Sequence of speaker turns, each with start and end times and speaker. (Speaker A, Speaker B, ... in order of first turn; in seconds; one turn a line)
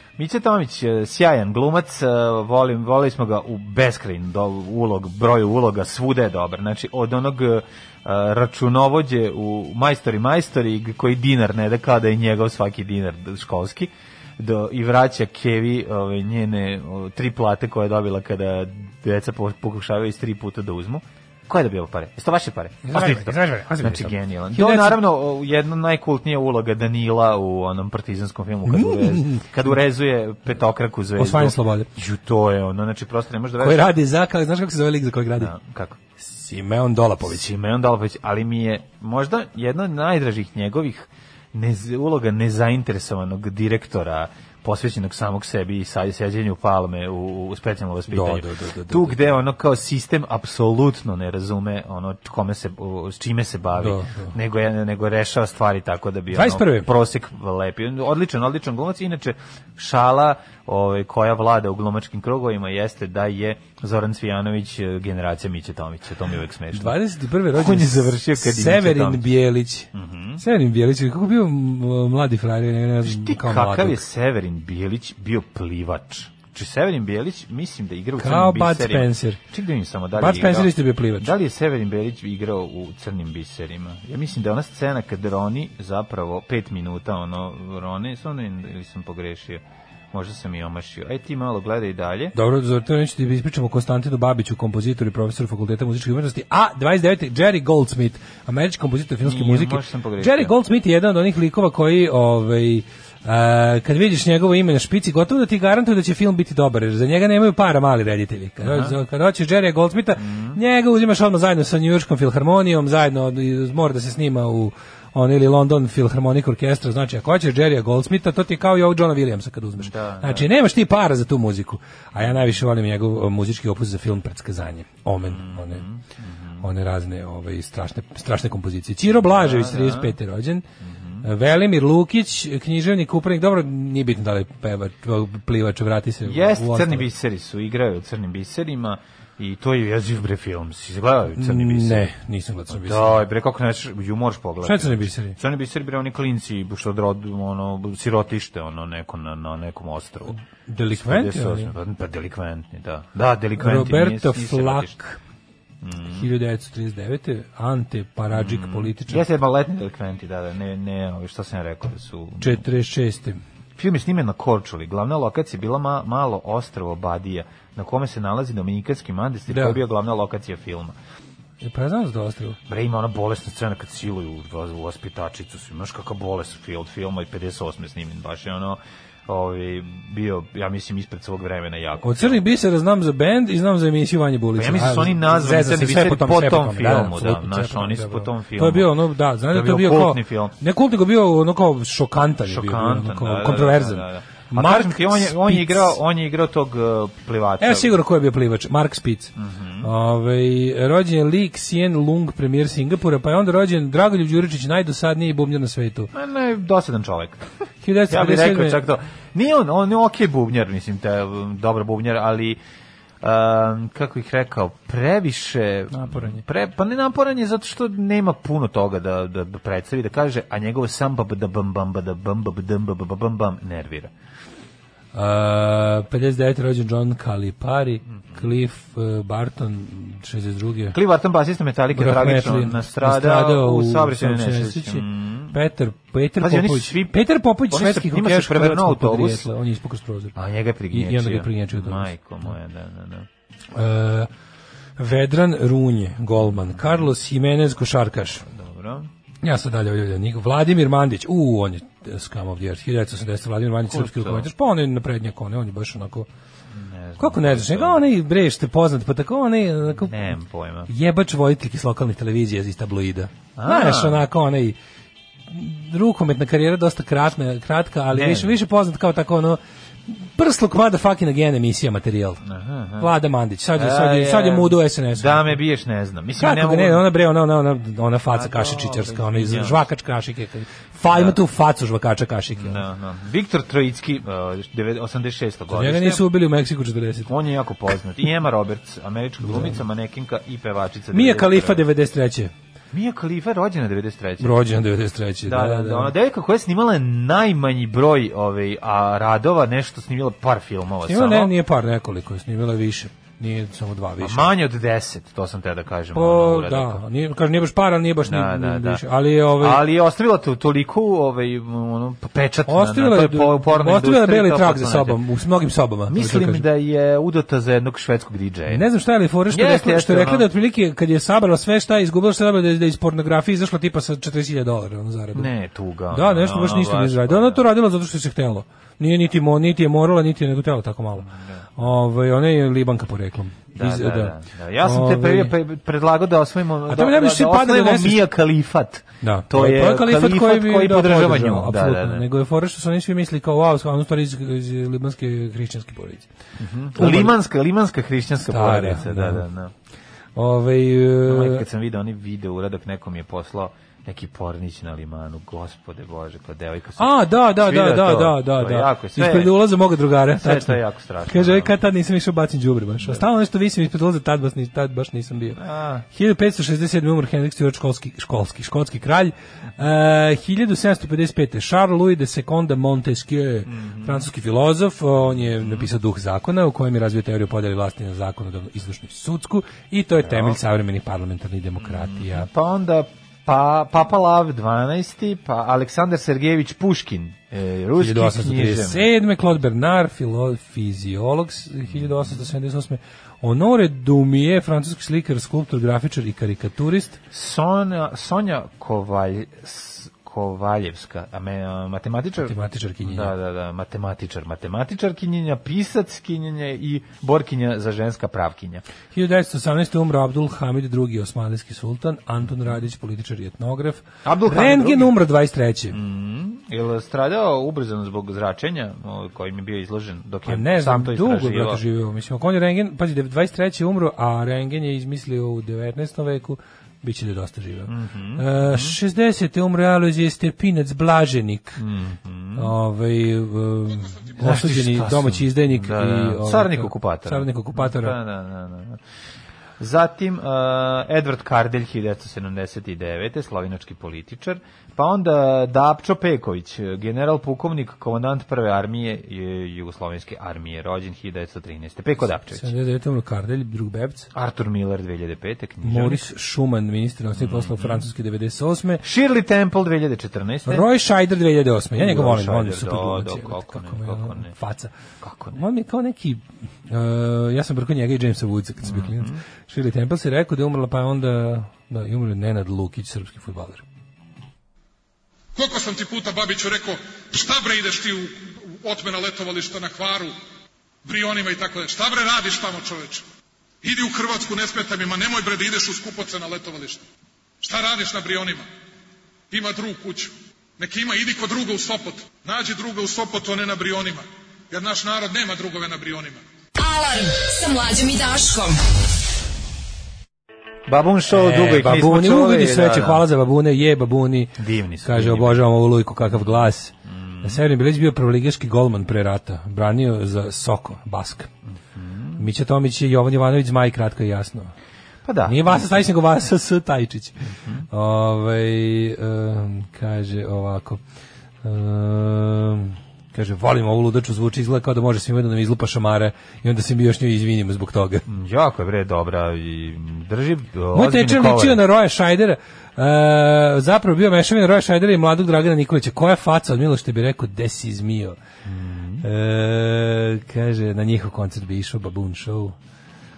Speaker A: 0.2-33.9
Speaker B: 22.8-25.0
Speaker B: 28.6-29.4
Speaker B: 31.2-31.9
Speaker B: 33.6-35.5
Speaker A: 35.4-36.0
Speaker B: 36.2-37.5
Speaker A: 37.2-66.9
Speaker B: 48.1-49.3
Speaker B: 53.8-54.3
Speaker B: 56.3-56.9
Speaker B: 66.7-74.0
Speaker A: 67.5-69.3
Speaker A: 69.9-70.4
Speaker A: 73.0-92.3
Speaker B: 78.2-79.4
Speaker B: 80.1-81.3
Speaker B: 92.3-125.8
Speaker A: 99.2-100.5
Speaker A: 108.6-108.9
Speaker A: 110.2-110.6
Speaker A: 119.8-120.5
Speaker A: 122.2-122.5
Speaker A: 125.2-126.6
Speaker B: 126.6-130.6
Speaker A: 129.2-130.2
Speaker A: 130.8-131.3
Speaker B: 131.2-137.1
Speaker A: 136.2-142.1
Speaker B: 141.4-143.2
Speaker A: 142.7-150.3
Speaker B: 144.6-145.3
Speaker B: 150.3-151.7
Speaker A: 150.9-155.0
Speaker B: 153.6-155.2
Speaker A: 155.8-156.3
Speaker B: 156.1-159.2
Speaker A: 158.3-162.6
Speaker B: 162.4-163.4
Speaker A: 163.8-170.9
Speaker B: 169.5-169.8
Speaker B: 171.6-172.6
Speaker A: 172.7-182.4
Speaker B: 182.0-196.0
Speaker A: 184.5-189.0
Speaker A: 189.5-190.5
Speaker A: 192.4-197.9
Speaker B: 197.6-206.1
Speaker A: 199.3-199.9
Speaker A: 206.1-207.4
Speaker B: 207.8-208.8
Speaker A: 208.1-212.6
Speaker A: 213.2-224.1
Speaker B: 215.9-216.4
Speaker B: 225.1-230.9
Speaker A: 230.9-235.6
Speaker B: 231.9-240.4
Speaker A: 236.4-239.5
Speaker A: 240.3-243.3
Speaker B: 240.9-242.1
Speaker B: 243.7-244.3
Speaker B: 245.0-248.4
Speaker A: 246.4-247.1
Speaker A: 248.4-249.1
Speaker B: 249.4-256.3
Speaker A: 253.8-254.5
Speaker A: 256.7-258.0
Speaker B: 257.2-260.2
Speaker A: 259.9-260.9
Speaker B: 260.9-264.8
Speaker A: 263.6-264.2
Speaker B: 265.5-272.4
Speaker A: 268.1-268.6
Speaker A: 272.4-273.1
Speaker B: 273.0-275.6
Speaker A: 273.8-277.0
Speaker B: 276.4-282.8
Speaker A: 278.3-279.8
Speaker A: 281.1-281.4
Speaker A: 282.6-286.2
Speaker B: 285.7-287.3
Speaker A: 287.3-291.8
Speaker B: 289.4-289.8
Speaker B: 291.1-292.5
Speaker A: 292.9-294.6
Speaker B: 294.4-296.1
Speaker A: 295.4-301.5
Speaker B: 301.1-304.5
Speaker A: 304.2-307.0
Speaker B: 306.1-309.8
Speaker A: 308.2-309.0
Speaker A: 309.6-315.2
Speaker B: 312.6-316.6
Speaker A: 316.1-318.9
Speaker B: 318.7-325.5
Speaker A: 319.5-320.5
Speaker A: 325.3-327.6
Speaker B: 326.1-335.5
Speaker A: 331.2-331.6
Speaker A: 333.7-342.3
Speaker B: 336.9-338.2
Speaker B: 339.2-346.3
Speaker A: 346.6-349.7
Speaker B: 346.9-347.4
Speaker B: 348.4-349.4
Speaker B: 350.4-351.6
Speaker A: 351.2-359.6
Speaker B: 357.0-365.6
Speaker A: 360.3-361.7
Speaker A: 365.6-366.0
Speaker B: 366.1-382.5
Speaker A: 373.6-374.3
Speaker A: 375.3-375.9
Speaker A: 380.2-380.6
Speaker A: 381.8-389.1
Speaker B: 388.0-397.2
Speaker A: 391.9-392.4
Speaker A: 397.3-408.8
Speaker B: 402.4-403.3
Speaker B: 409.1-416.0
Speaker A: 414.2-415.1
Speaker A: 415.9-421.8
Speaker B: 420.4-431.8
Speaker A: 427.9-429.0
Speaker A: 431.8-432.7
Speaker B: 432.6-438.2
Speaker A: 434.3-439.0
Speaker A: 439.8-452.7
Speaker B: 452.5-454.3
Speaker A: 454.3-456.3
Speaker B: 455.8-459.0
Speaker A: 457.4-458.0
Speaker A: 459.0-460.9
Speaker B: 460.7-464.9
Speaker A: 461.9-464.5
Speaker A: 465.2-465.6
Speaker B: 465.5-473.8
Speaker A: 468.8-469.4
Speaker C: 475.5-480.4
Speaker C: 481.0-483.2
Speaker C: 483.8-487.0
Speaker C: 487.6-488.7
Speaker C: 489.5-496.4
Speaker D: 496.8-498.8
Speaker A: 500.9-503.2
Speaker B: 501.3-511.5
Speaker A: 504.6-505.6
Speaker A: 506.3-507.6
Speaker A: 511.8-512.5
Speaker B: 512.4-514.7
Speaker A: 515.2-516.0
Speaker B: 515.5-517.4
Speaker B: 517.9-521.0
Speaker B: 521.6-528.2
Speaker A: 528.3-531.8
Speaker B: 530.9-538.4
Speaker A: 538.6-539.2
Speaker B: 539.2-542.7